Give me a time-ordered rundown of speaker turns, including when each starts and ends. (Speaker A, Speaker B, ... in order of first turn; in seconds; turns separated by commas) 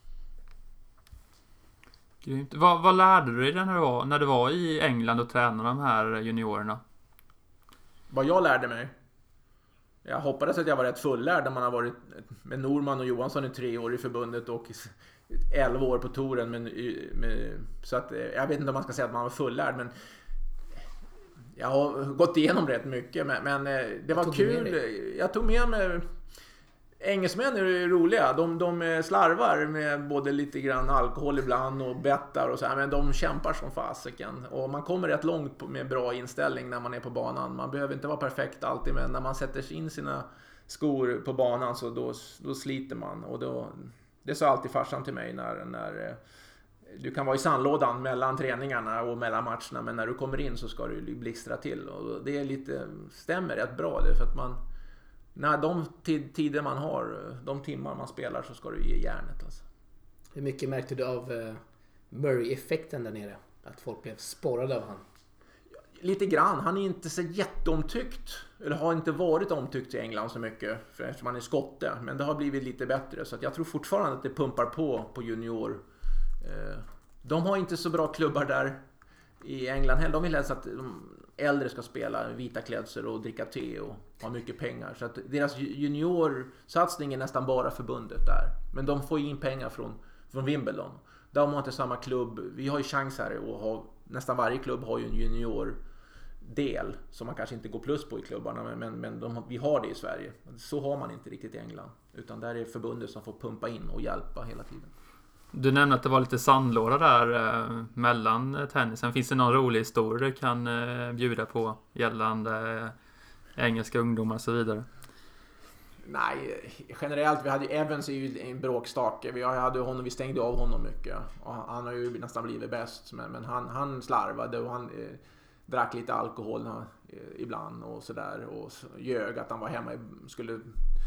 Speaker A: 2.2-6.8, Speaker B: 8.1-8.9, Speaker B: 10.0-19.9, Speaker B: 21.6-26.1, Speaker C: 24.1-24.8, Speaker B: 27.0-46.2, Speaker B: 46.9-54.6, Speaker B: 55.3-59.6, Speaker C: 60.3-65.0, Speaker B: 65.9-75.8, Speaker B: 76.4-78.8, Speaker B: 79.4-95.8, Speaker B: 96.4-104.9, Speaker A: 105.5-112.9, Speaker A: 113.5-114.9, Speaker B: 116.0-130.8